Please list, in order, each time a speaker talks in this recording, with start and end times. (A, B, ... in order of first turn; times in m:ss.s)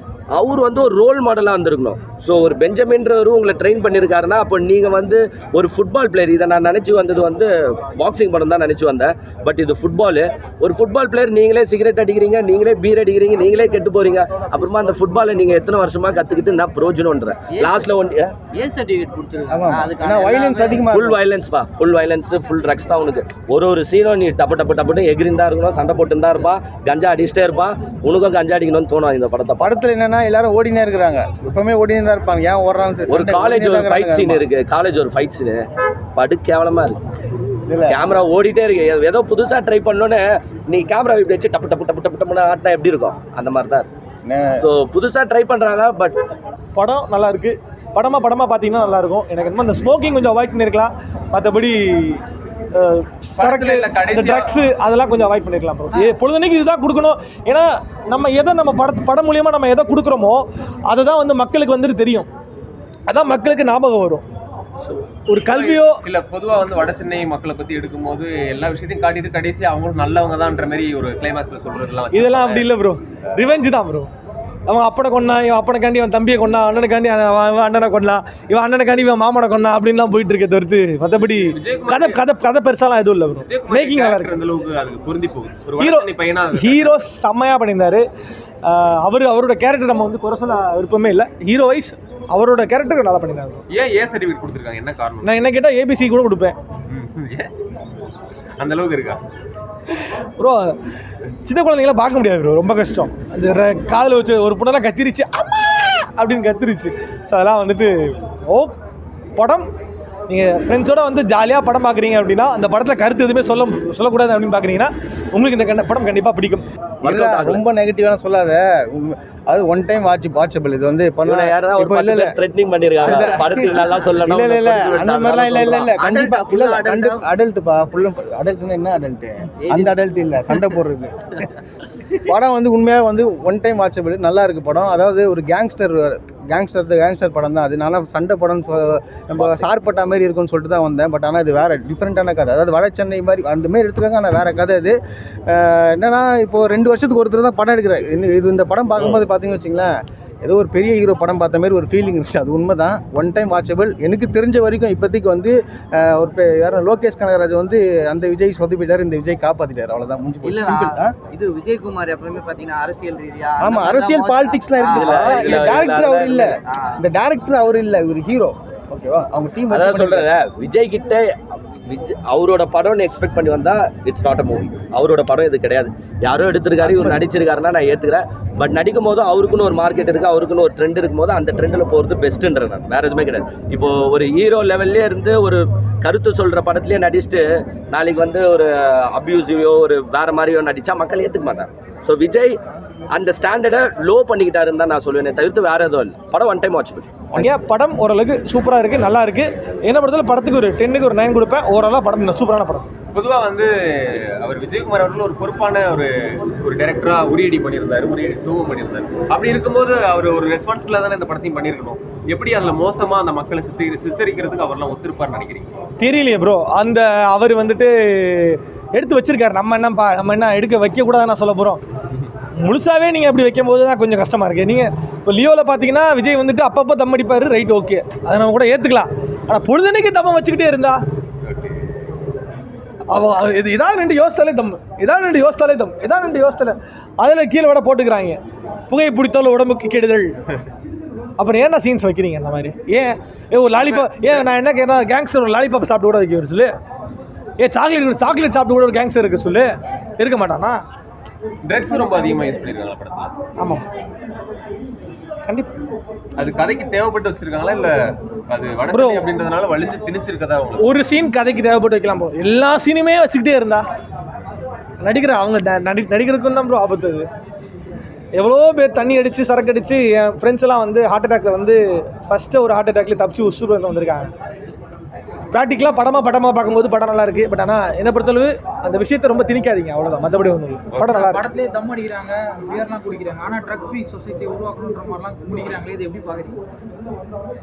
0:00.3-0:18.4 A
0:17.5-0:17.9 B
0:18.5-0:20.8 B
0:19.5-0:21.2 C
0:20.9-0:29.7 A
0:29.6-0:34.4 C
0:33.1-0:35.6 A
0:36.2-0:37.0 A
0:37.7-0:38.1 C
0:37.9-0:43.9 A
0:44.2-0:44.6 C
0:44.6-0:46.2 A
0:46.8-0:52.2 D
0:52.7-1:02.3 D
0:53.4-0:54.6 E
1:03.1-1:04.2 D
1:05.3-1:06.0 D
1:05.4-1:12.7 E
1:12.1-1:14.1 D
1:14.7-1:24.4 D
1:21.4-1:22.2 E
1:23.5-1:27.0 E
1:25.8-1:28.0 D
1:28.6-1:33.6 D
1:33.7-1:35.3 E
1:35.2-1:36.6 D
1:36.9-1:37.5 E
1:38.6-1:39.2 E
1:40.4-1:40.8 D
1:41.4-1:48.8 D
1:49.4-1:49.7 D
1:50.3-1:56.7 D
1:57.0-1:57.6 A
1:57.0-2:02.4 C
2:01.2-2:06.0 A
2:03.0-2:11.4 C
2:06.0-2:07.3 B
2:09.6-2:10.0 B
2:12.2-2:41.2 C
2:40.4-2:45.9 B
2:43.6-2:50.3 C
2:44.9-2:46.6 A
2:46.6-2:47.0 B
2:49.7-2:51.3 A
2:51.8-3:12.6 A
2:56.8-2:57.2 C
3:13.1-3:17.3 A
3:17.3-3:22.9 D
3:23.1-3:35.7 E
3:36.0-3:41.8 D
3:42.6-3:51.0 D
3:51.4-3:51.8 E
3:53.1-4:00.3 D
4:01.4-4:06.7 D
4:03.8-4:04.4 E
4:07.6-4:10.8 D
4:11.6-4:13.4 E
4:13.6-4:13.9 D
4:15.5-4:15.7 D
4:16.4-4:18.0 E
4:18.5-4:20.9 E
4:18.9-4:19.3 D
4:20.8-4:23.8 D
4:25.0-4:27.3 D
4:28.4-4:34.3 D
4:35.5-4:41.4 D
4:40.9-4:41.2 E
4:41.2-4:46.6 F